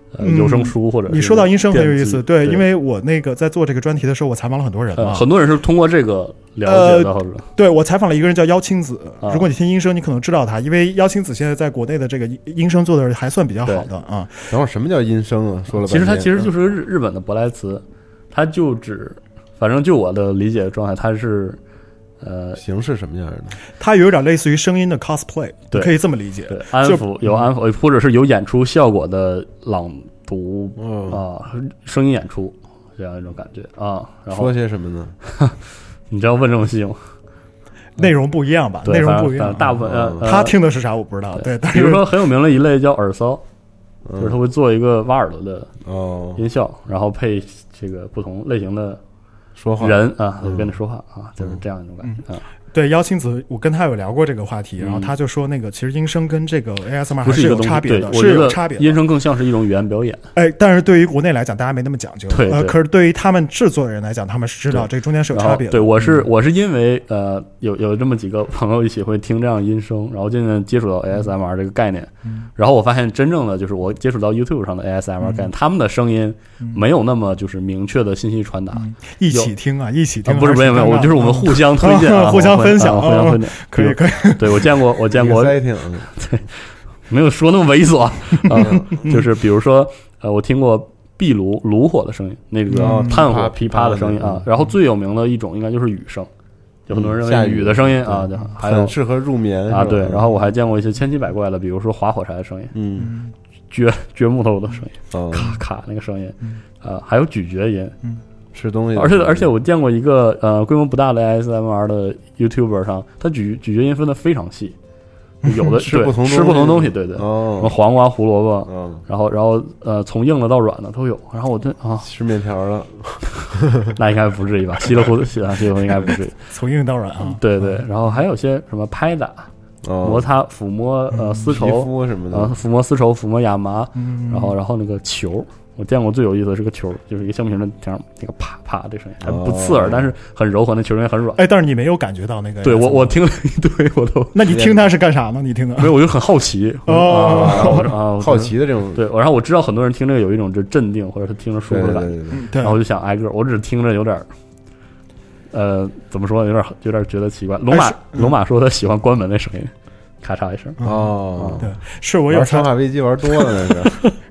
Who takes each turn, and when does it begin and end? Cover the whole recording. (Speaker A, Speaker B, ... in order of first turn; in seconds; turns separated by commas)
Speaker A: 0.1-2.6, Speaker B: 0.2-5.2, Speaker A: 5.0-7.5, Speaker B: 6.7-14.5, Speaker A: 9.2-9.5, Speaker C: 14.5-16.3, Speaker A: 15.8-21.6, Speaker A: 22.2-22.6, Speaker C: 22.6-23.6, Speaker B: 23.8-27.4, Speaker A: 26.5-34.5, Speaker C: 30.8-31.2, Speaker C: 34.3-35.1, Speaker A: 35.3-35.6, Speaker A: 36.1-37.1, Speaker B: 38.0-42.1, Speaker A: 38.8-40.5, Speaker C: 39.8-40.2, Speaker A: 41.4-43.4, Speaker C: 44.0-44.3, Speaker A: 44.2-45.7, Speaker C: 45.8-46.4, Speaker A: 46.4-49.0, Speaker C: 49.5-50.7, Speaker A: 49.8-52.4, Speaker B: 52.0-59.0, Speaker A: 54.8-55.1, Speaker A: 57.2-60.2, Speaker B: 60.3-66.2, Speaker A: 62.3-62.8, Speaker A: 64.7-79.5, Speaker B: 75.2-75.5, Speaker B: 78.7-84.7, Speaker A: 80.2-96.3, Speaker C: 85.2-86.1, Speaker C: 88.5-89.0, Speaker B: 92.7-93.1, Speaker C: 92.8-94.7, Speaker A: 96.9-98.9, Speaker C: 96.9-100.3, Speaker A: 99.7-102.7, Speaker C: 102.7-103.1, Speaker B: 103.0-103.3, Speaker A: 103.7-107.9, Speaker C: 105.1-105.5, Speaker C: 108.5-109.5, Speaker A: 109.0-114.8, Speaker B: 115.4-115.7, Speaker A: 115.4-122.1, Speaker C: 115.8-117.7, Speaker C: 118.7-119.0, Speaker C: 122.0-123.9, Speaker A: 124.0-126.3, Speaker B: 126.5-127.8, Speaker A: 127.3-129.5, Speaker C: 129.8-130.3, Speaker A: 130.0-141.4, Speaker C: 131.4-132.5, Speaker B: 133.9-134.5, Speaker C: 139.2-140.1, Speaker B: 141.3-143.2, Speaker A: 142.6-144.4, Speaker B: 144.3-145.9, Speaker C: 144.5-144.9, Speaker A: 145.8-154.3, Speaker B: 146.9-147.9, Speaker C: 147.1-149.0, Speaker C: 151.7-152.4, Speaker B: 152.3-152.8, Speaker A: 155.5-160.8, Speaker B: 157.7-158.3, Speaker B: 160.8-162.7, Speaker C: 160.8-161.8, Speaker C: 162.3-163.9